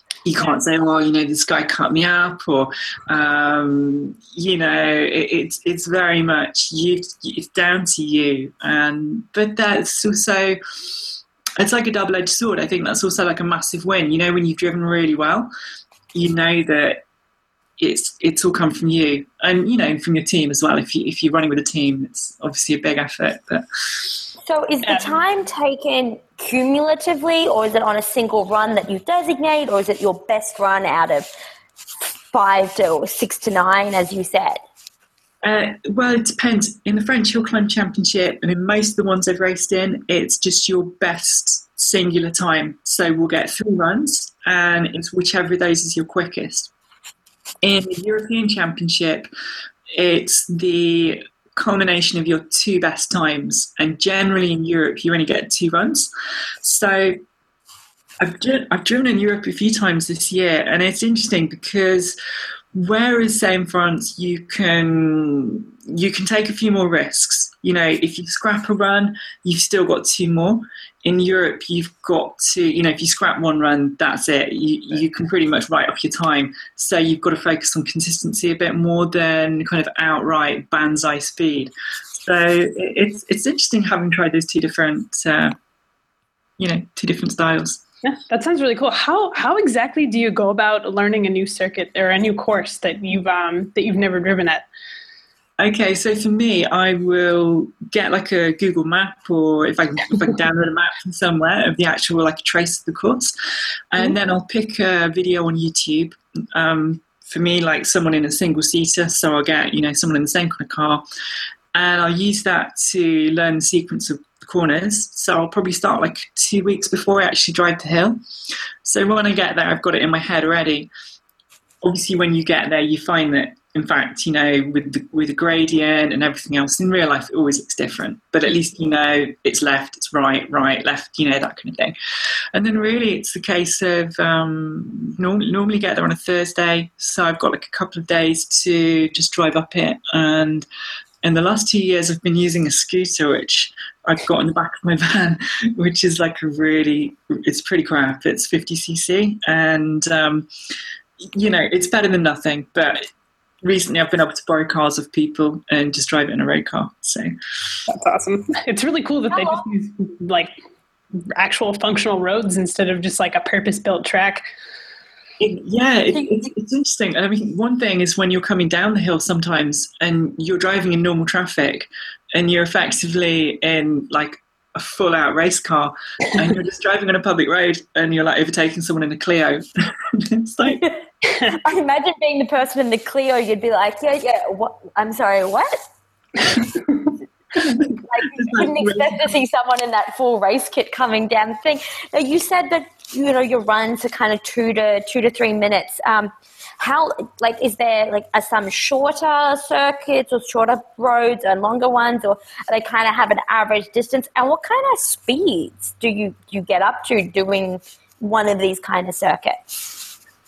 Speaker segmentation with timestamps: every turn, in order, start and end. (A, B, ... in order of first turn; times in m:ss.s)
0:00.2-0:15.5 A
0:16.1-0:17.0 A
0:17.8-0:24.1 A
0:24.4-0:31.2 B
0:24.8-0:25.2 C
0:32.3-0:34.6 B
0:35.4-0:46.7 A
0:47.6-0:49.3 A
0:50.0-0:56.1 A
0:56.6-0:57.2 A
0:58.2-1:02.2 A
1:02.7-1:25.5 A
1:26.6-1:27.8 A
1:28.0-1:34.7 C
1:35.6-1:43.3 A
1:43.9-1:51.0 A
1:51.7-1:58.2 A
1:58.8-2:00.9 A
2:01.8-2:11.9 A
2:12.5-2:20.7 A
2:21.2-2:30.5 A
2:31.2-2:33.0 A
2:33.6-2:37.3 A
2:37.9-2:40.5 C
2:39.3-2:39.6 B
2:41.3-2:44.4 C
2:45.4-3:00.9 A
3:01.4-3:05.8 B
3:08.1-3:29.8 B
3:08.2-3:09.3 A